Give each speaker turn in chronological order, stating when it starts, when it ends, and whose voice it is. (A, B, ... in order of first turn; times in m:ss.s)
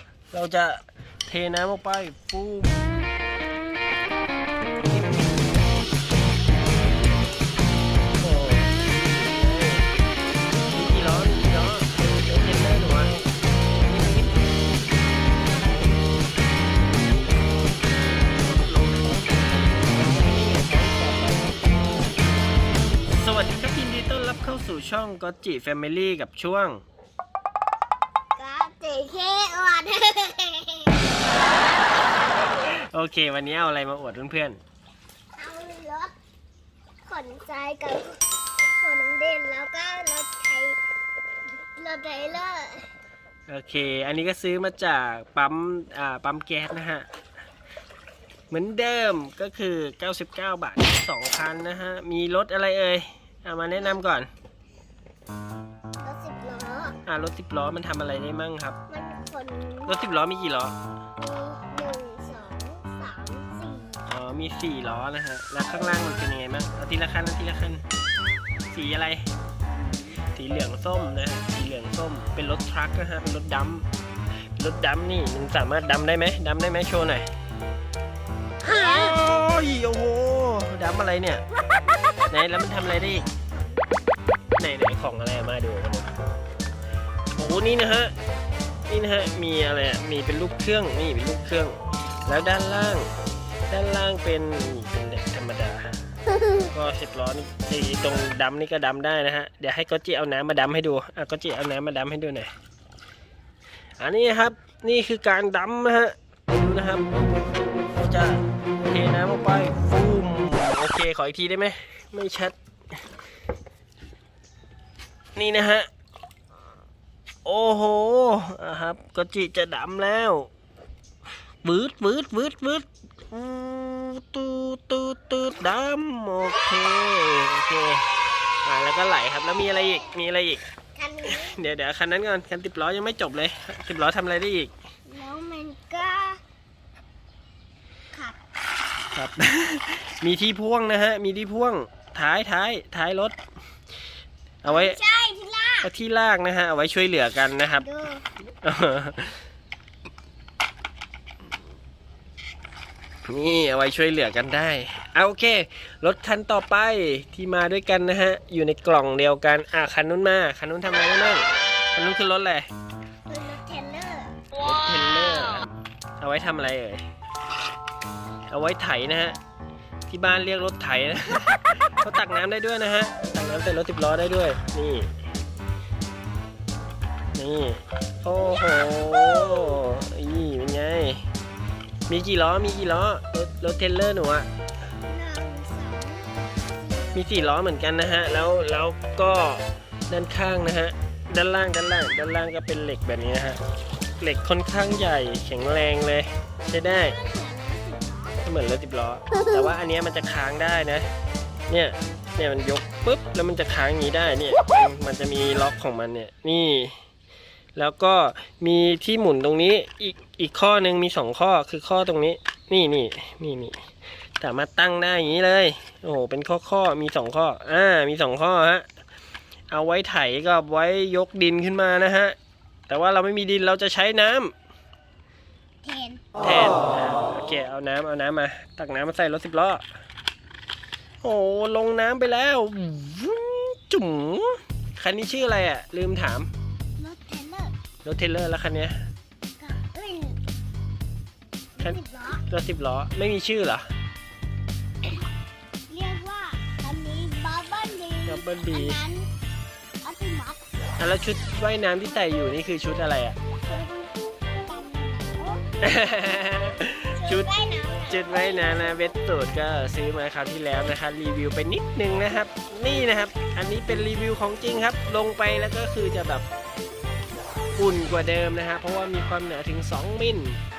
0:00.3-0:03.0 A
0:08.2-0:09.9 A
0:10.7-0:13.1 A
0:13.8-0:14.4 A
0:18.0-0:21.8 A
0:23.1-0:26.8 A
0:28.4-0:31.8 B
0:32.6-0:34.6 A
0:35.4-0:36.1 B
0:37.0-0:40.8 B
0:41.7-0:42.9 B
0:43.5-0:47.0 A
0:48.5-0:54.3 A
0:56.0-0:57.0 B
0:57.0-0:58.8 A
0:58.9-1:00.0 B
0:59.8-1:00.7 A
1:01.2-1:04.1 B
1:04.0-1:07.8 A
1:08.7-1:09.2 A
1:10.3-1:13.8 A
1:14.6-1:17.3 A
1:18.6-1:21.4 A
1:18.6-1:19.1 B
1:22.3-1:23.3 A
1:23.3-1:24.0 B
1:24.6-1:26.2 A
1:27.4-1:28.1 A
1:28.9-1:33.1 A
1:33.7-1:35.9 A
1:36.6-1:42.5 A
1:44.0-1:52.5 A
1:55.4-1:55.9 A
1:57.4-2:00.5 A
2:01.6-2:08.1 A
2:08.6-2:10.6 A
2:10.9-2:11.6 B
2:11.2-2:14.7 A
2:15.1-2:16.4 B
2:18.1-2:18.4 B
2:19.1-2:23.4 A
2:24.6-2:25.0 A
2:24.6-2:25.9 B
2:25.8-2:27.8 A
2:27.8-2:28.2 B
2:28.6-2:29.4 A
2:33.2-2:42.7 A
2:43.3-2:44.4 B
2:44.5-2:47.0 A
2:48.5-2:49.4 A
2:50.1-2:55.1 A
2:57.3-3:01.2 A
2:58.6-2:59.8 B
3:02.1-3:04.5 A
3:05.1-3:07.2 B
3:07.1-3:13.6 A
3:14.2-3:17.2 A
3:16.8-3:18.4 B
3:18.4-3:21.1 A
3:21.7-3:27.0 A
3:27.8-3:33.9 A
3:34.4-3:38.8 A
3:39.7-3:42.4 A
3:42.9-3:44.5 A
3:45.8-3:46.3 B
3:46.4-3:49.8 A
3:51.2-3:56.5 A
3:57.0-3:57.8 B
3:58.0-3:59.0 A
3:59.6-4:00.4 B
4:01.8-4:02.4 B
4:01.8-4:03.9 A
4:05.9-4:09.3 B
4:08.2-4:09.0 A
4:10.0-4:10.6 B
4:11.0-4:13.4 A
4:13.6-4:15.6 B
4:15.8-4:17.5 A
4:17.1-4:19.1 B
4:18.1-4:26.4 A
4:27.8-4:30.6 A